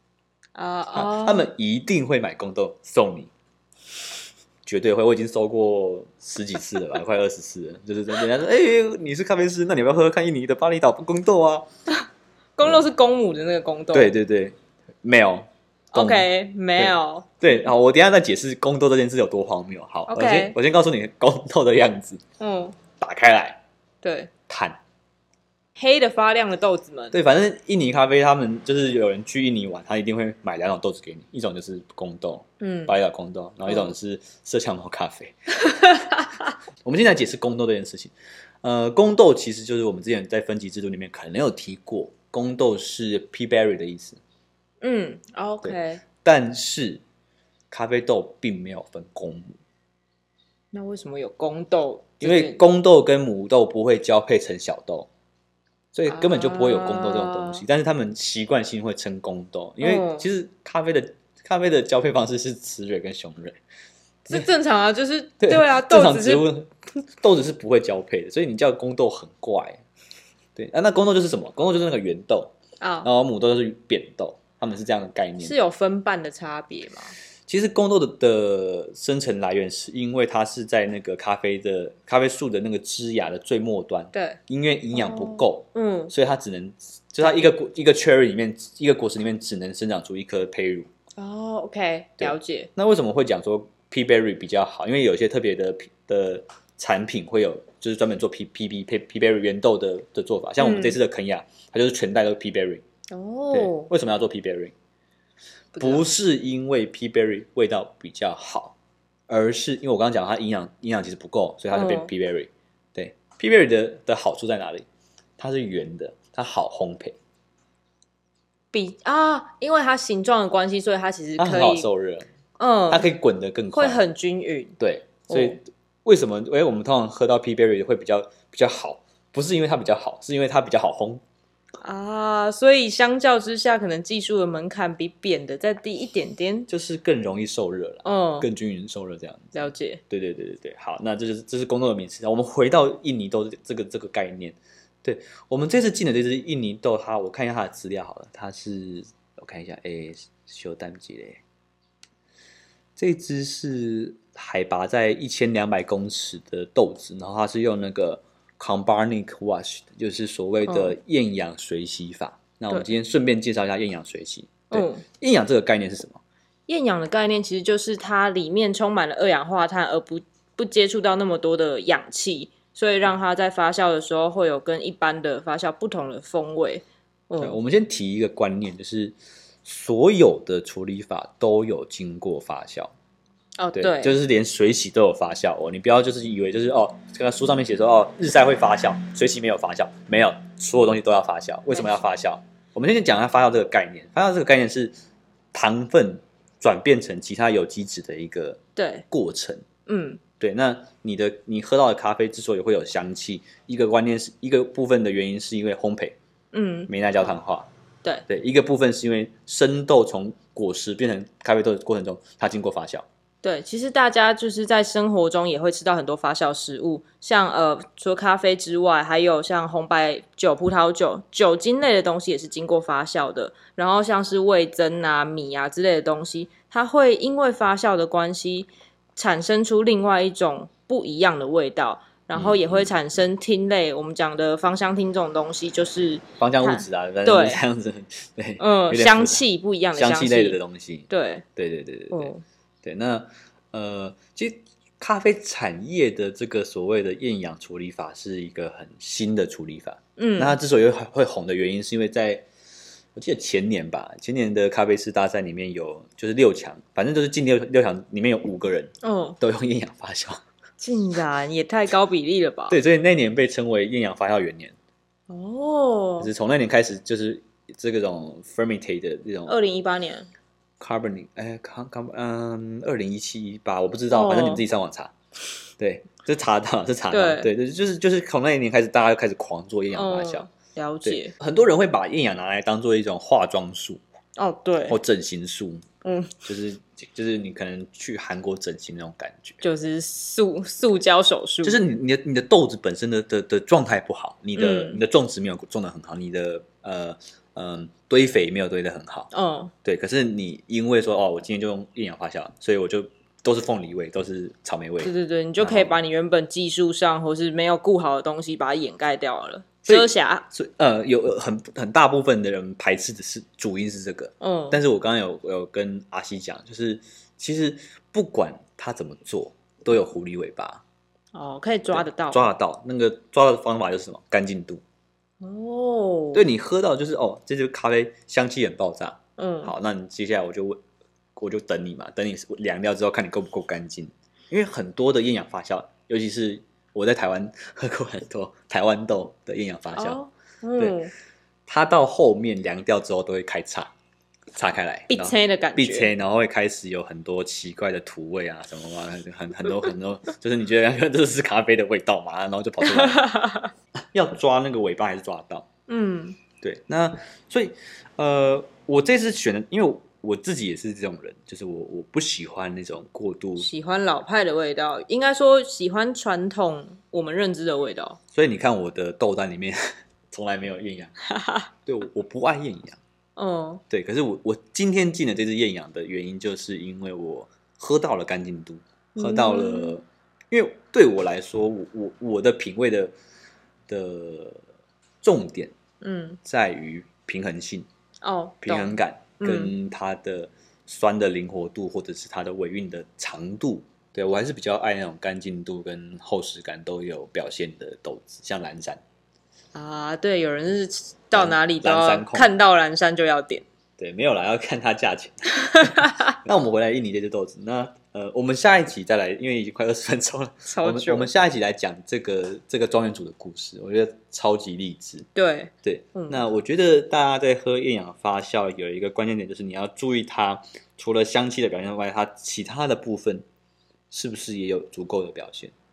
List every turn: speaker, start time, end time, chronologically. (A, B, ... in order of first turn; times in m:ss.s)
0:00.5-0:01.5 A
0:00.9-0:03.3 B
0:04.6-0:11.7 B
0:12.6-0:14.1 A
0:13.9-0:22.2 B
0:15.9-0:17.3 A
0:20.1-0:20.6 A
0:22.4-0:22.8 A
0:23.0-0:23.6 B
0:24.0-0:24.3 A
0:24.5-0:24.8 B
0:25.8-0:27.1 A
0:27.1-0:35.3 B
0:32.6-0:32.9 A
0:33.7-0:33.9 A
0:35.6-0:36.3 A
0:36.8-0:44.2 B
0:44.8-0:46.0 A
0:45.6-0:47.0 B
0:47.7-0:49.5 B
0:50.7-0:52.6 A
0:52.2-0:55.1 B
0:55.9-1:03.6 B
0:56.1-0:57.6 A
0:59.8-1:00.3 A
1:04.2-1:06.4 A
1:05.4-1:09.8 B
1:10.6-1:12.5 B
1:12.8-1:13.1 A
1:13.0-1:15.5 B
1:15.4-1:17.1 A
1:17.5-1:30.9 B
1:24.1-1:24.4 A
1:24.9-1:26.1 A
1:31.2-1:32.7 A
1:32.2-1:42.8 B
1:40.6-1:41.0 A
1:43.1-1:43.9 A
1:43.5-1:44.7 B
1:45.7-1:46.0 A
1:45.8-1:48.7 B
1:49.3-1:54.8 B
1:51.7-1:52.1 A
1:55.4-1:57.2 B
1:58.7-2:01.9 A
2:01.4-2:02.2 B
2:02.6-2:03.0 A
2:02.9-2:04.0 B
2:03.7-2:04.8 A
2:04.8-2:11.2 B
2:05.3-2:05.6 A
2:11.8-2:16.7 A
2:16.7-2:31.4 B
2:18.0-2:18.5 A
2:19.5-2:20.0 A
2:33.0-2:46.2 B
2:40.7-2:40.9 A
2:44.7-2:45.0 A
2:46.7-2:57.6 A
2:57.4-3:02.9 B
3:03.6-3:04.2 A
3:03.8-3:14.9 B
3:15.5-3:19.6 B
3:18.8-3:19.0 A
3:19.9-3:20.2 A
3:20.4-3:26.2 B
3:26.5-3:26.9 A
3:26.9-3:27.7 B
3:28.3-3:33.0 B
3:33.4-3:57.6 A
3:52.3-3:53.0 B
3:56.4-4:12.4 B
3:58.6-4:00.6 A
4:01.1-4:01.4 A
4:02.1-4:02.4 A
4:10.2-4:10.6 A
4:13.1-4:20.4 B
4:19.0-4:19.4 A
4:20.8-4:22.8 A
4:22.7-4:24.7 B
4:25.3-4:26.3 A
4:26.2-4:29.5 B
4:29.5-4:30.3 A
4:30.8-4:35.1 B
4:34.1-4:34.6 A
4:35.8-4:40.5 B
4:37.1-4:37.5 A
4:39.9-4:41.3 A
4:41.0-4:44.0 B
4:44.4-4:45.0 A
4:44.9-4:45.8 B
4:46.0-4:46.3 A
4:46.4-4:49.6 B
4:49.6-4:51.8 A
4:51.6-4:59.3 B
4:54.6-4:55.0 A
4:59.3-4:59.7 A
4:59.8-5:06.0 B
5:05.0-5:10.4 A
5:09.8-5:20.8 B
5:14.4-5:14.8 A
5:21.3-5:22.5 A
5:21.9-5:24.8 B
5:25.4-5:26.4 A
5:26.3-5:30.8 B
5:29.4-5:29.7 A
5:31.4-5:40.2 B
5:39.9-5:41.1 A
5:41.7-5:43.9 B
5:44.5-5:53.3 B
5:45.1-5:46.1 A
5:52.8-5:53.7 A
5:54.1-5:55.6 B
5:55.9-5:56.4 A
5:56.6-6:03.6 B
6:03.6-6:08.2 A
6:08.3-6:09.8 B
6:10.3-6:11.1 B
6:11.3-6:11.7 A
6:11.8-6:13.0 B
6:13.4-6:13.8 A
6:13.9-6:23.1 B
6:19.1-6:19.9 A
6:23.9-6:24.6 B
6:25.2-6:25.7 B
6:26.0-6:26.4 A
6:26.4-6:27.9 B
6:28.2-6:29.7 A
6:28.6-6:39.0 B
6:39.7-6:43.6 A
6:41.3-6:42.5 B
6:44.0-6:55.2 B
6:45.7-6:46.2 A
6:50.7-6:51.3 A
6:55.3-6:56.4 A
6:55.8-7:03.4 B
7:04.1-7:05.7 B